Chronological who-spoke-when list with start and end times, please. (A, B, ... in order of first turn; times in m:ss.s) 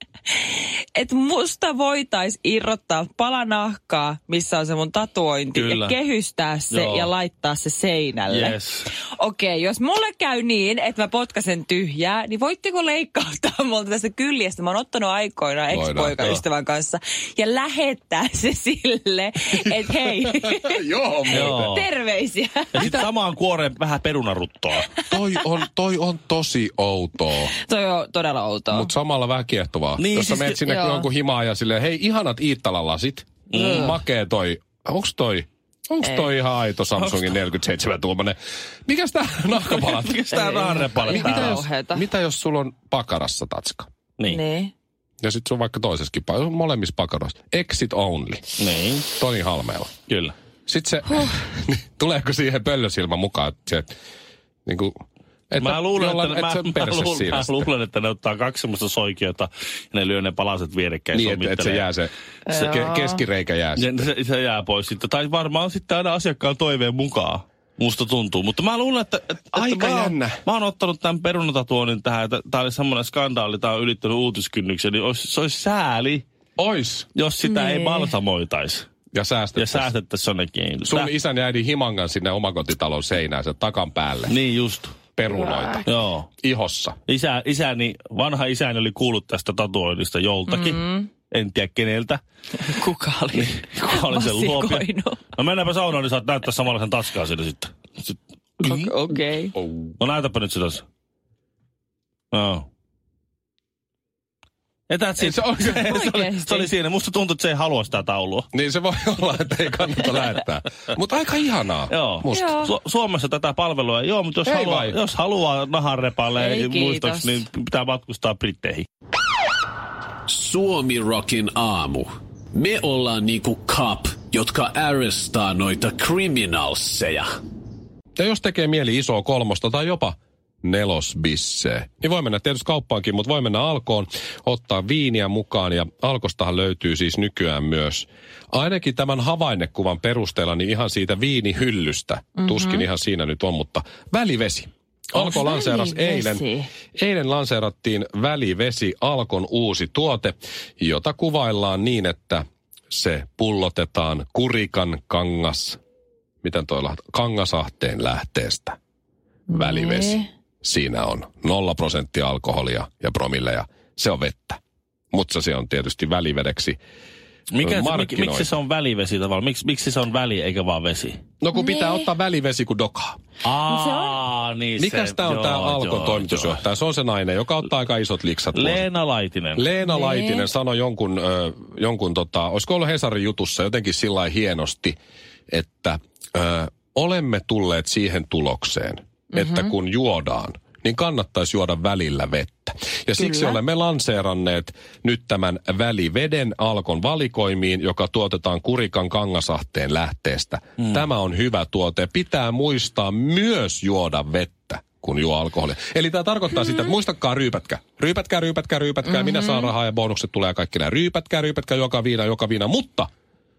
0:00.4-0:23.0 A
0:05.6-0:06.0 B
0:06.7-0:07.1 B
0:08.3-0:08.9 B
0:15.7-0:16.2 C
0:20.2-0:21.8 C
0:21.3-0:21.9 B
0:22.7-0:24.9 B
0:22.8-0:23.0 C
0:25.0-0:25.4 A
0:25.1-0:27.5 C
0:27.6-0:28.9 A
0:28.7-0:43.9 C
0:30.0-0:30.6 B
0:30.6-0:31.1 A
0:33.5-0:34.0 B
0:33.6-0:34.0 A
0:36.0-0:36.3 A
0:37.0-0:37.4 B
0:39.6-0:41.6 B
0:40.4-0:42.1 A
0:44.3-0:44.7 A
0:45.2-0:48.5 C
0:48.6-0:49.1 B
0:49.1-0:49.9 C
0:50.1-0:50.3 B
0:50.7-0:53.9 C
0:54.7-0:57.7 C
0:55.6-1:01.9 B
1:01.1-1:03.8 C
1:02.5-1:03.2 A
1:03.8-1:16.2 B
1:09.5-1:10.4 C
1:16.6-1:17.1 C
1:17.2-1:18.9 B
1:17.4-1:18.1 A
1:19.1-1:19.9 C
1:19.6-1:21.1 B
1:20.8-1:24.4 C
1:24.3-1:25.0 B
1:25.2-1:25.9 C
1:25.3-1:25.8 A
1:25.9-1:26.3 B
1:26.4-1:27.0 C
1:27.1-1:32.2 B
1:30.5-1:31.1 A
1:32.6-1:35.2 A
1:33.3-1:38.9 B
1:38.6-1:39.5 A
1:39.6-1:39.9 C
1:40.0-1:40.8 B
1:42.3-1:42.6 B
1:44.9-1:48.5 B
1:45.2-1:46.0 C
1:45.8-1:46.7 A
1:48.5-1:52.6 C
1:51.9-1:58.9 B
1:52.3-1:52.7 A
1:54.4-1:55.0 C
1:56.3-1:57.4 A
2:00.3-2:07.3 D
2:08.2-2:35.8 C
2:22.4-2:22.8 A
2:25.2-2:26.7 A
2:36.4-2:38.8 C
2:39.5-2:40.2 A
2:39.5-2:44.6 C
2:45.1-2:46.8 C
2:47.5-2:51.2 B
2:47.6-2:48.5 C
2:51.4-2:53.2 C
2:51.5-2:52.1 A
2:53.4-2:56.6 B
2:53.7-2:54.2 A
2:54.8-2:58.8 C
2:58.6-2:59.7 B
2:59.6-3:05.0 C
2:59.8-3:00.5 A
3:05.5-3:33.1 C
3:09.3-3:09.7 A
3:13.2-3:13.6 A
3:29.1-3:29.7 A